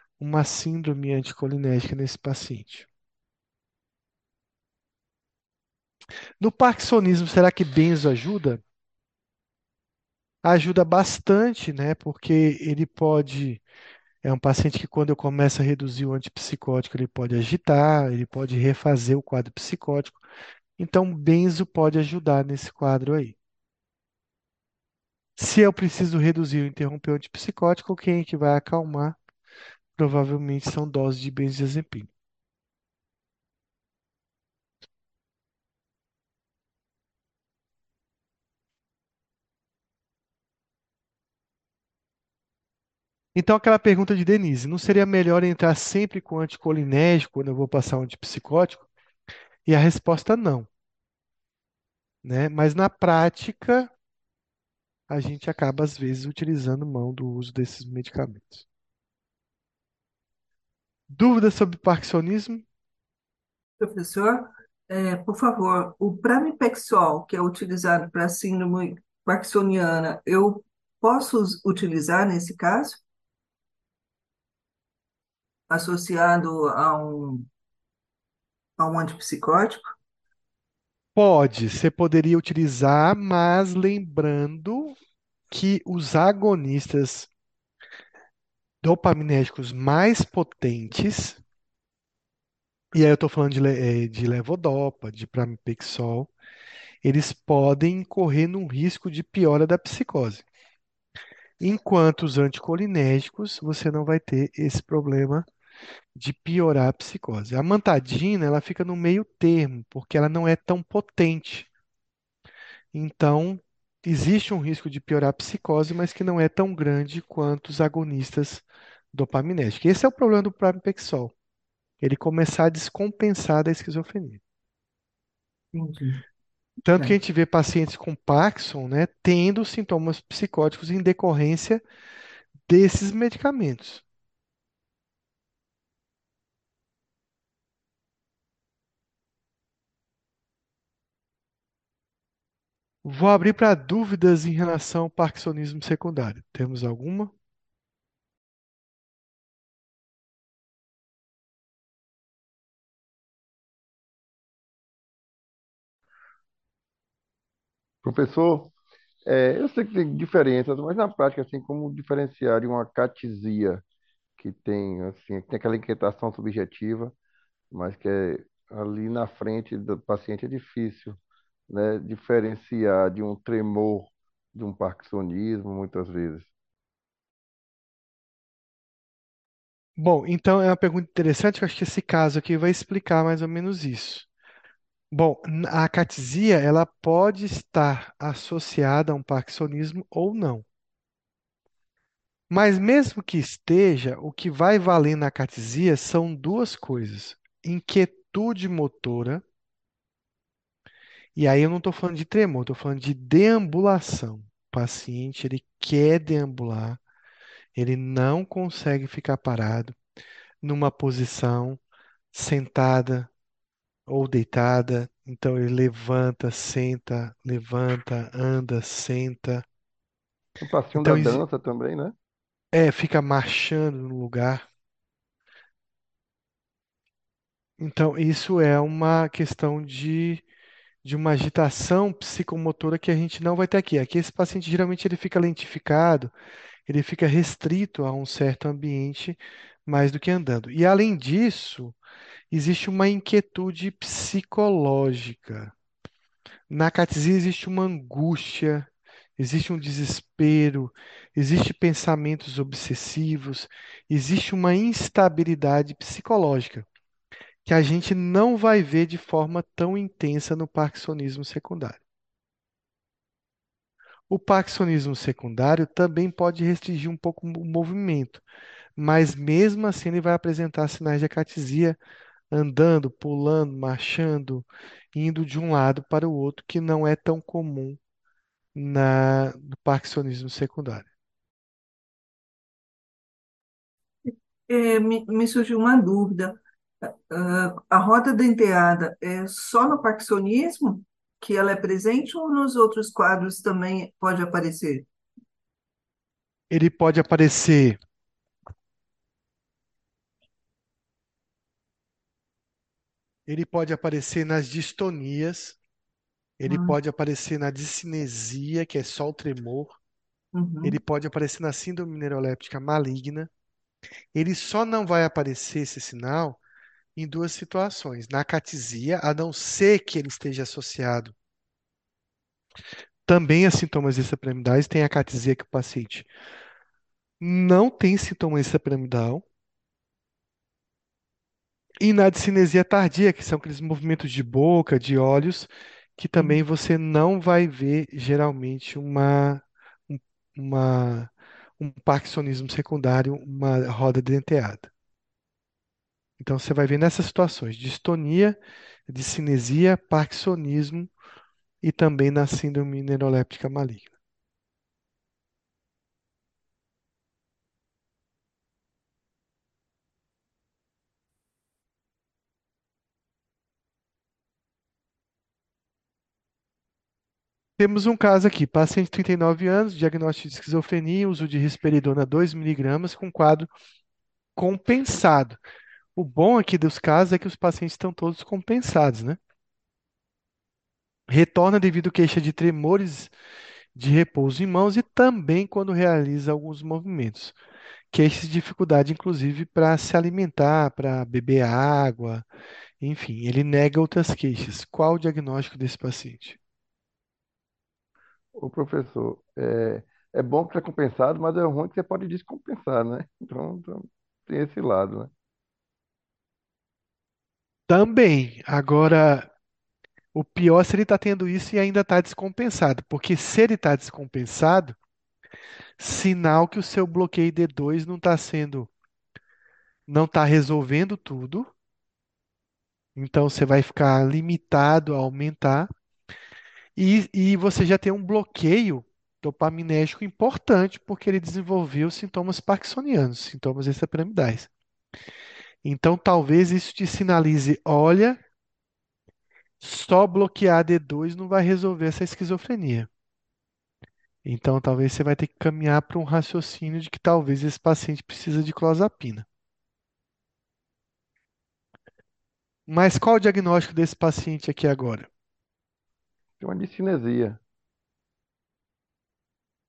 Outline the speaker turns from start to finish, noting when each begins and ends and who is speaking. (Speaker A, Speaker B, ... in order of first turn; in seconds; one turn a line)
Speaker A: 0.2-2.9
Speaker A: 6.4-8.6
Speaker A: 10.4-13.6
Speaker A: 14.2-20.2
Speaker A: 20.8-23.4
Speaker A: 25.4-29.2
Speaker A: 29.9-32.1
Speaker A: 43.3-48.9
Speaker A: 49.6-50.7
Speaker A: 52.2-53.9
Speaker A: 55.1-58.6
Speaker A: 61.1-62.6
Speaker B: 63.8-73.0
Speaker B: 75.7-77.5
Speaker B: 78.8-79.9
Speaker A: 81.2-85.0
Speaker A: 85.5-87.3
Speaker A: 88.8-91.4
Speaker A: 92.9-96.3
Speaker A: 97.0-100.4
Speaker A: 101.6-105.5
Speaker A: 106.2-111.7
Speaker A: 112.9-121.3
Speaker A: 122.0-124.4
Speaker B: 125.7-126.2
Speaker A: 126.8-131.8
Speaker B: 126.9-127.2
Speaker A: 132.7-134.0
Speaker A: 143.0-147.3
Speaker C: 158.0-158.7
Speaker C: 159.3-163.8
Speaker C: 164.4-167.1
Speaker C: 167.7-171.2
Speaker C: 171.7-176.5
Speaker A: 180.0-184.3
Speaker A: 185.1-190.6
Speaker A: 192.5-199.4
Speaker A: 201.3-207.0
Speaker A: 207.8-209.9
Speaker A: 210.6-211.8
Speaker A: 212.3-213.3
Speaker A: 214.1-219.6
Speaker C: 220.6-222.1
Speaker A: 220.9-221.4
Speaker A: 222.7-224.6
Speaker A: 227.8-230.4
Speaker A: 231.0-236.3
Speaker A: 236.9-241.9
Speaker A: 242.5-245.7
Speaker A: 246.7-256.9
Speaker A: 257.6-262.0
Speaker A: 264.3-268.4
Speaker A: 269.0-272.0
Speaker A: 272.5-278.0
Speaker A: 278.7-281.1
Speaker B: 284.2-295.1
Speaker A: 296.7-298.0
Speaker A: 303.5-305.8
Speaker A: 306.6-310.0
Speaker B: 306.7-307.0
Speaker B: 310.5-311.0
Speaker A: 310.8-313.5
Speaker A: 314.3-316.6
Speaker A: 317.1-321.3
Speaker A: 323.3-326.3
Speaker A: 327.4-329.4
Speaker A: 332.0-344.9
Speaker A: 346.4-351.1
Speaker A: 351.8-354.1
Speaker A: 367.8-373.7
Speaker A: 374.6-375.6
Speaker A: 376.1-379.4
Speaker A: 381.3-383.3
Speaker A: 383.9-387.6
Speaker A: 388.1-392.4
Speaker A: 393.0-396.6
Speaker C: 398.6-405.3
Speaker A: 407.9-409.5
Speaker A: 410.3-414.9
Speaker A: 416.0-418.9
Speaker A: 420.1-421.7
Speaker A: 423.1-425.9
Speaker A: 426.9-434.7
Speaker A: 435.8-438.4
Speaker A: 439.8-443.1
Speaker A: 444.4-449.5
Speaker A: 452.9-455.3
Speaker C: 456.6-457.6